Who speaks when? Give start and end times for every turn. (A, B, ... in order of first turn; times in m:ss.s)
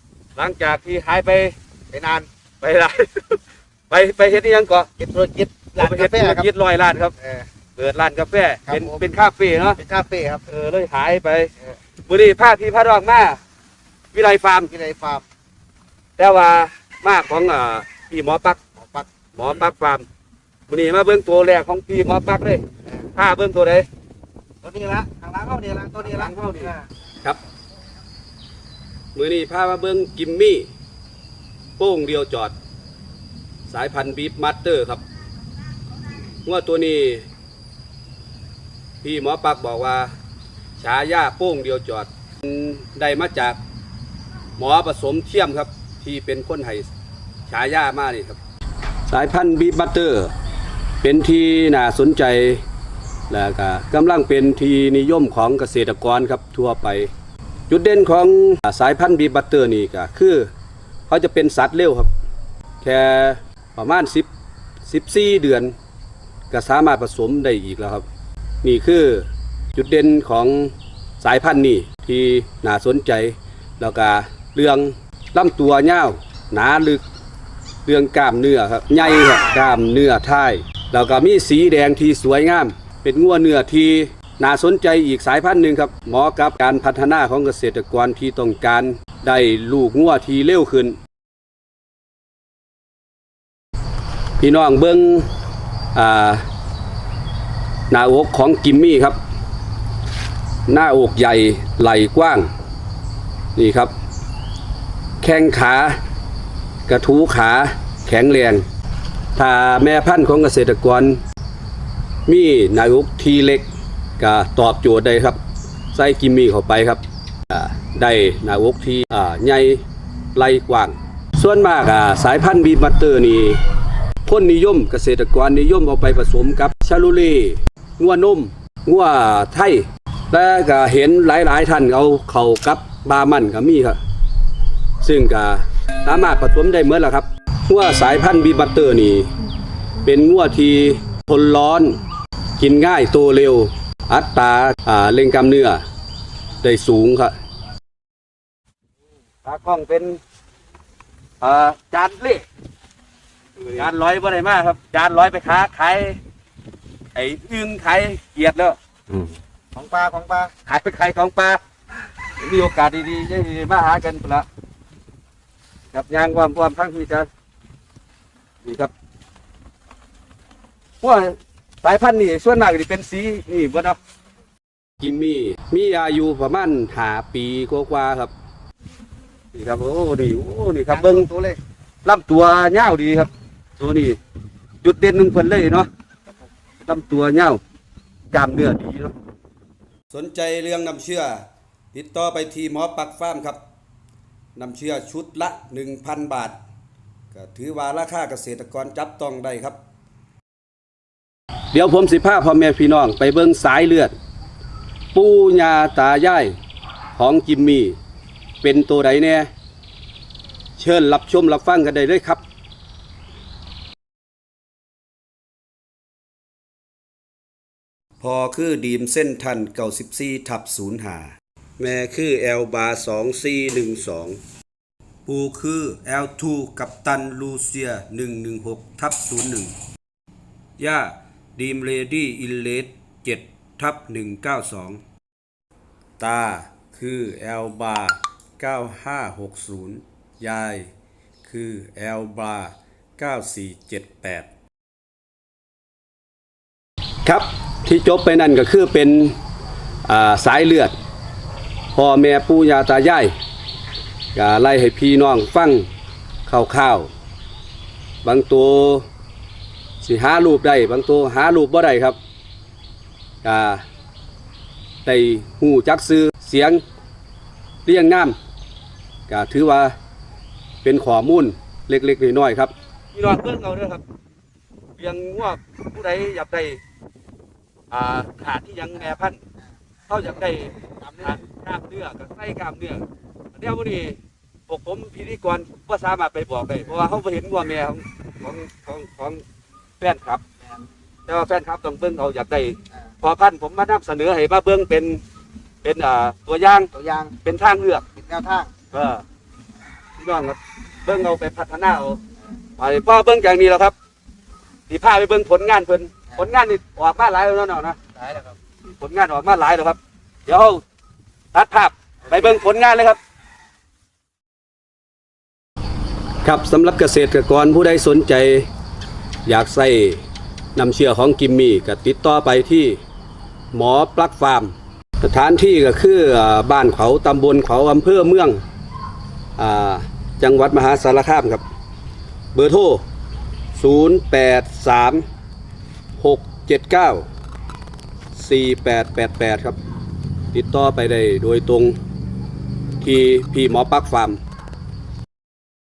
0:00.4-0:01.6 A
0:01.9-0:02.3 B
0:02.6-0:04.9 A
0:05.0-0:06.5 B
0:05.8-0:07.2 A
0:07.2-0:07.4 B
0:07.8-0:09.8 A
0:08.7-0:09.0 B
0:09.8-0:10.4 B
0:10.5-0:11.5 A
0:12.1-0:13.4 A
0:14.1-0:14.7 A
0:14.7-0:15.2 B
0:16.2-0:18.6 A
0:18.8-0:19.1 B
0:19.4-0:20.1 A
0:20.7-0:22.6 A
0:23.2-0:23.9 A
0:24.6-0:26.8 B
0:26.0-0:27.4 A
0:29.2-0:30.7 A
0:31.8-0:32.6 A
0:33.7-0:35.0 A
0:36.4-0:37.3 A
0:39.0-0:40.1 A
0:40.8-0:43.6 A
0:44.6-0:46.9 A
0:47.5-0:48.4 A
0:49.1-0:50.3 A
0:51.0-0:52.6 A
0:53.3-0:57.1 A
0:57.7-1:00.5 A
1:01.1-1:02.1 A
1:02.8-1:04.3 A
1:04.9-1:05.7 A
1:06.5-1:08.0 A
1:08.6-1:17.0 A
1:17.8-1:31.0 A
1:34.4-1:35.3 A
1:35.9-1:36.4 A
1:37.9-1:39.2 A
1:40.7-1:42.5 A
1:43.6-1:43.9 A
1:45.2-1:46.0 A
1:46.9-1:48.6 A
1:49.4-1:51.2 A
1:52.3-1:53.7 A
1:54.2-1:55.4 A
1:55.9-1:59.8 A
2:00.3-2:03.6 A
2:04.2-2:14.0 A
2:15.0-2:19.3 A
2:20.0-2:22.0 A
2:22.6-2:25.8 A
2:26.6-2:27.3 A
2:29.4-2:30.2 A
2:31.4-2:32.4 A
2:33.7-2:36.2 A
2:37.2-2:38.8 A
2:39.8-2:40.5 B
2:40.7-2:41.6 A
2:42.4-2:44.5 A
2:45.9-2:47.3 A
2:48.6-2:48.9 A
2:51.0-2:54.0 A
2:55.0-2:58.3 A
2:59.5-3:01.3 A
3:00.9-3:01.6 B
3:02.0-3:04.2 A
3:04.8-3:05.9 A
3:06.8-3:07.6 A
3:08.3-3:09.1 A
3:10.1-3:13.6 A
3:14.6-3:16.6 A
3:17.3-3:19.8 A
3:21.7-3:24.1 A
3:25.1-3:26.5 A
3:27.2-3:28.0 A
3:28.6-3:29.5 A
3:30.8-3:32.4 A
3:38.2-3:44.4 A
3:45.3-3:49.7 A
3:50.8-3:55.0 A
3:56.2-4:00.9 A
4:01.5-4:04.5 A
4:07.2-4:09.4 A
4:10.1-4:10.9 A
4:12.0-4:13.3 A
4:14.4-4:15.9 A
4:16.5-4:17.1 A
4:18.2-4:19.1 A
4:20.0-4:22.2 A
4:23.4-4:23.8 A
4:25.0-4:26.8 A
4:27.8-4:28.4 A
4:29.3-4:30.0 A
4:30.8-4:34.0 A
4:35.0-4:36.8 A
4:37.9-4:39.4 A
4:40.1-4:49.4 A
4:40.5-4:41.4 B
4:50.0-4:50.4 A
4:51.3-4:55.2 A
4:55.8-4:56.9 A
4:56.9-4:57.3 B
4:57.4-4:58.0 A
4:58.2-4:58.7 B
4:58.9-4:59.2 A
5:00.2-5:02.2 A
5:02.8-5:04.0 A
5:04.9-5:08.0 A
5:08.2-5:08.5 B
5:09.0-5:10.8 A
5:11.5-5:13.2 A
5:16.4-5:18.7 A
5:19.4-5:20.2 A
5:20.8-5:23.0 A
5:23.7-5:28.6 A
5:29.6-5:31.6 A
5:32.5-5:33.0 A
5:33.8-5:35.2 A
5:36.2-5:37.3 A
5:38.3-5:39.8 A
5:40.5-5:42.0 A
5:43.0-5:44.4 A